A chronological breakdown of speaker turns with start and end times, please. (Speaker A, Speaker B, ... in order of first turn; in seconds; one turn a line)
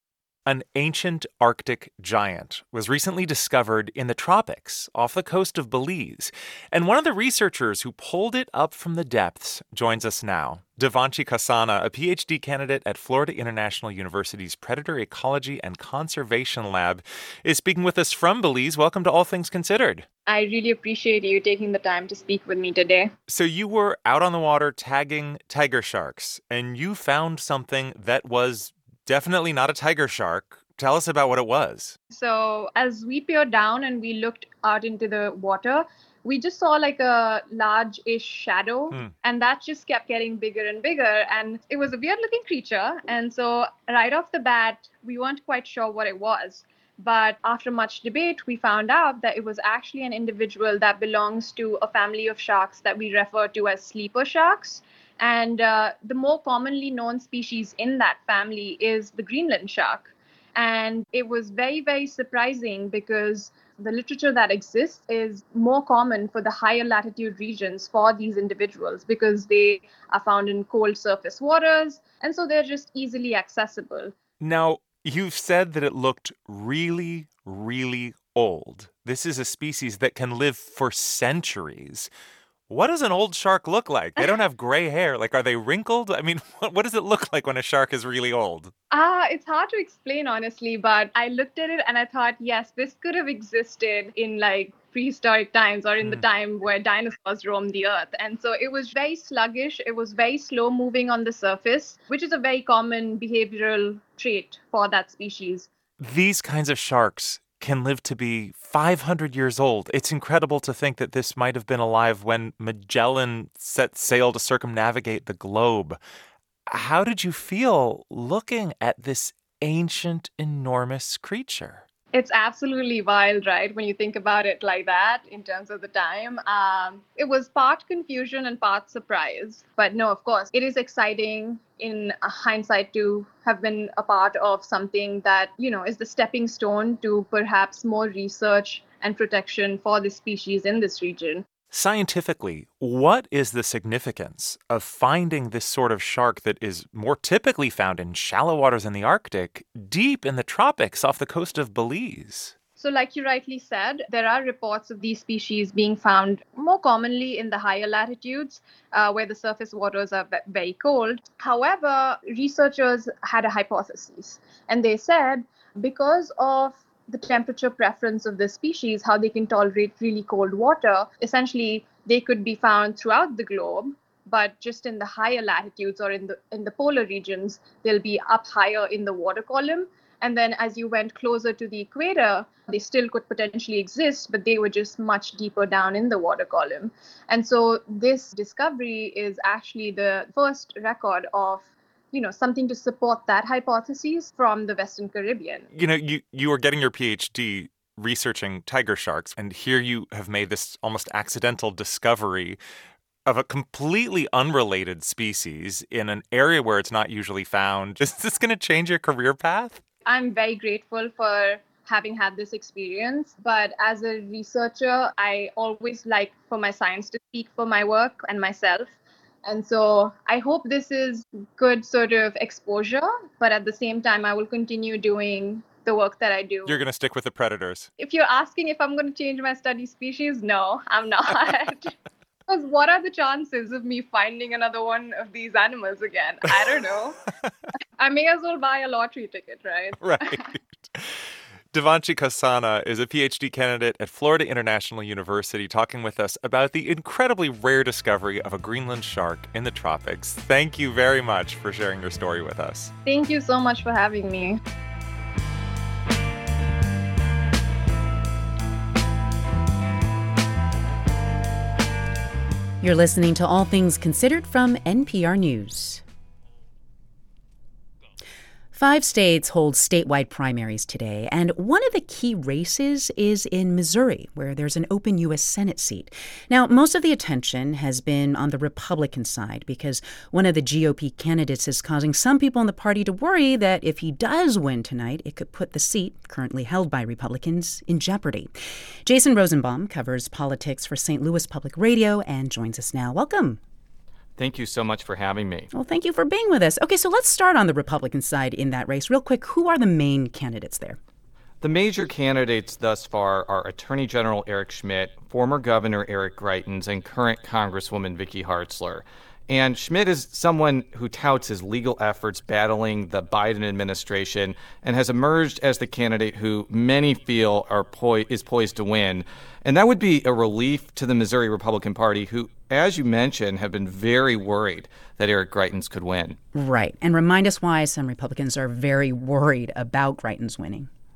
Speaker A: 0.5-20.1
Speaker B: 20.3-23.1
Speaker A: 23.3-32.0
Speaker B: 32.1-74.1
Speaker A: 74.4-82.1
Speaker A: 82.7-88.7
Speaker B: 88.9-105.7
Speaker A: 106.0-116.0
Speaker A: 116.7-121.8
Speaker B: 122.1-141.4
Speaker A: 141.7-152.6
Speaker B: 152.8-195.7
Speaker A: 195.7-202.6
Speaker A: 203.2-209.8
Speaker B: 210.1-218.9
Speaker B: 219.4-226.8
Speaker A: 226.7-227.9
Speaker B: 228.0-231.9
Speaker B: 232.5-237.2
Speaker B: 238.0-240.4
Speaker A: 240.0-240.4
Speaker A: 241.7-252.9
Speaker B: 253.1-254.6
Speaker C: 262.8-266.0
Speaker C: 268.7-293.6
Speaker D: 294.4-295.7
Speaker C: 295.7-301.0
Speaker D: 301.6-326.4
Speaker C: 326.5-330.9